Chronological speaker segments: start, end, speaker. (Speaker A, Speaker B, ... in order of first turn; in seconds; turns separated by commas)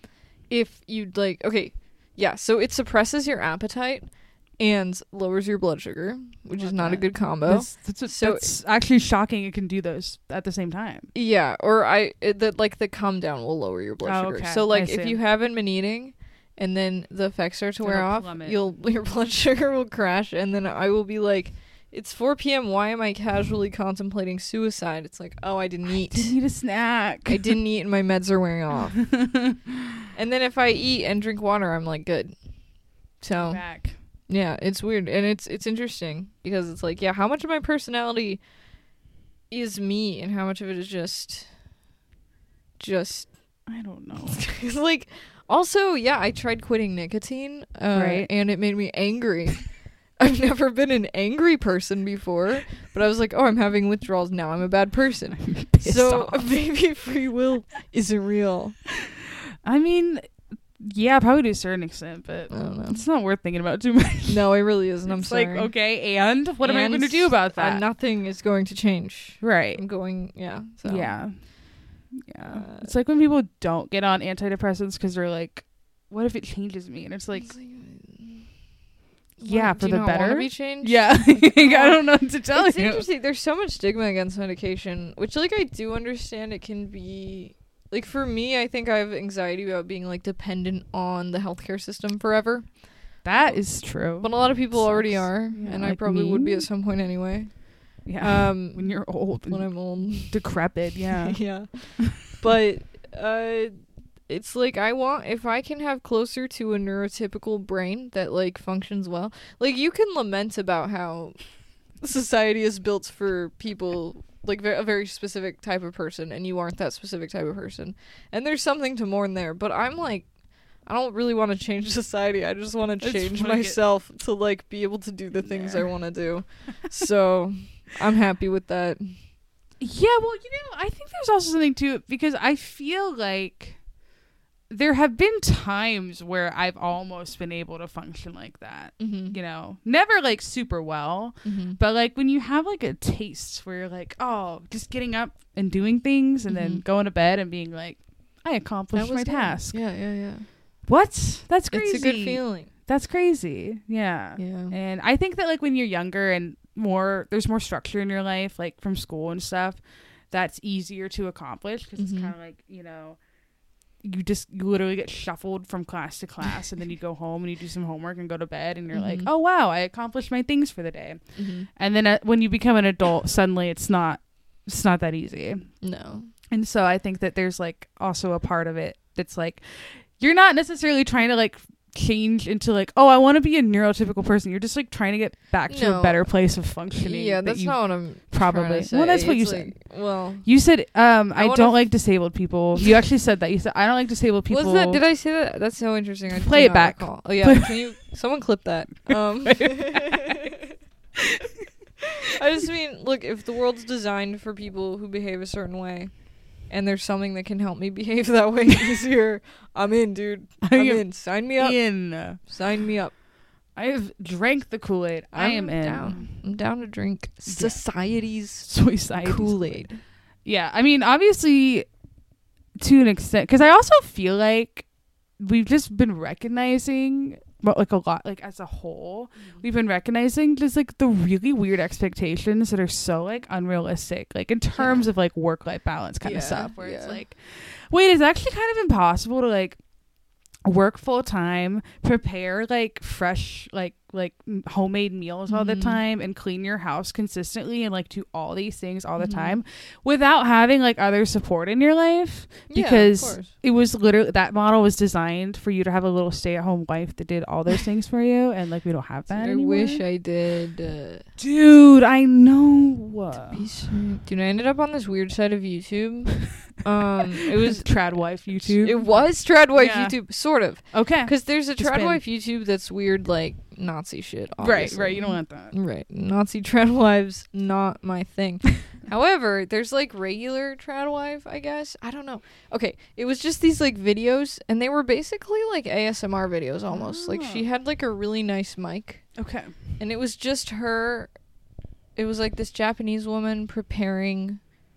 Speaker A: 0.5-8.5, Speaker B: 6.6-11.1, Speaker A: 11.1-26.4, Speaker B: 14.0-15.2, Speaker B: 17.8-18.6, Speaker B: 26.1-27.6, Speaker A: 27.3-29.1, Speaker B: 29.0-29.8, Speaker A: 30.1-32.4, Speaker A: 33.2-33.7, Speaker B: 33.4-34.0, Speaker A: 34.3-38.4, Speaker A: 39.5-41.5, Speaker A: 42.8-43.4, Speaker B: 43.7-44.4, Speaker A: 44.2-58.8, Speaker B: 47.9-48.3, Speaker B: 55.4-56.5, Speaker B: 59.0-64.5, Speaker A: 62.5-63.0, Speaker A: 64.3-65.7, Speaker B: 65.1-67.8, Speaker A: 66.6-71.2, Speaker B: 69.4-69.8, Speaker B: 70.8-77.5, Speaker A: 72.4-72.9, Speaker A: 77.3-78.5, Speaker A: 79.4-100.5, Speaker B: 79.5-83.1, Speaker B: 93.2-96.7, Speaker B: 98.0-101.4, Speaker A: 101.2-103.7, Speaker A: 104.3-111.5, Speaker A: 112.0-129.2, Speaker B: 123.0-123.8, Speaker B: 125.3-126.5, Speaker B: 129.8-133.8, Speaker B: 134.7-149.8, Speaker A: 139.0-139.4, Speaker A: 141.4-141.8, Speaker A: 146.5-146.8, Speaker A: 148.9-150.5, Speaker B: 150.9-163.2, Speaker A: 151.7-152.7, Speaker A: 154.4-154.8, Speaker A: 162.0-162.3, Speaker B: 164.0-175.7, Speaker A: 168.9-169.3, Speaker A: 171.4-171.7, Speaker A: 175.8-176.3, Speaker B: 176.5-195.0, Speaker A: 185.7-186.3, Speaker A: 186.9-190.5, Speaker A: 191.4-191.9, Speaker A: 194.5-200.8, Speaker B: 196.3-197.9, Speaker B: 199.1-200.4, Speaker B: 201.2-201.7, Speaker A: 202.2-206.1, Speaker A: 206.7-213.1, Speaker B: 210.6-212.4, Speaker B: 213.8-216.3, Speaker A: 215.3-218.7, Speaker B: 217.5-217.8, Speaker B: 218.7-219.8, Speaker A: 219.2-220.0, Speaker B: 220.4-221.9, Speaker B: 222.8-224.9, Speaker B: 225.4-239.8, Speaker A: 234.7-235.1, Speaker A: 236.2-237.2, Speaker B: 240.7-260.0, Speaker A: 245.5-246.0, Speaker A: 249.2-249.6, Speaker A: 252.7-253.5, Speaker A: 259.3-261.3, Speaker B: 261.4-263.7, Speaker A: 263.5-267.9, Speaker B: 267.6-269.1, Speaker A: 268.7-289.3, Speaker B: 269.7-270.3, Speaker B: 270.8-272.2, Speaker B: 274.6-275.7, Speaker B: 286.9-287.6, Speaker B: 289.4-289.8, Speaker A: 290.0-291.3, Speaker A: 292.2-294.6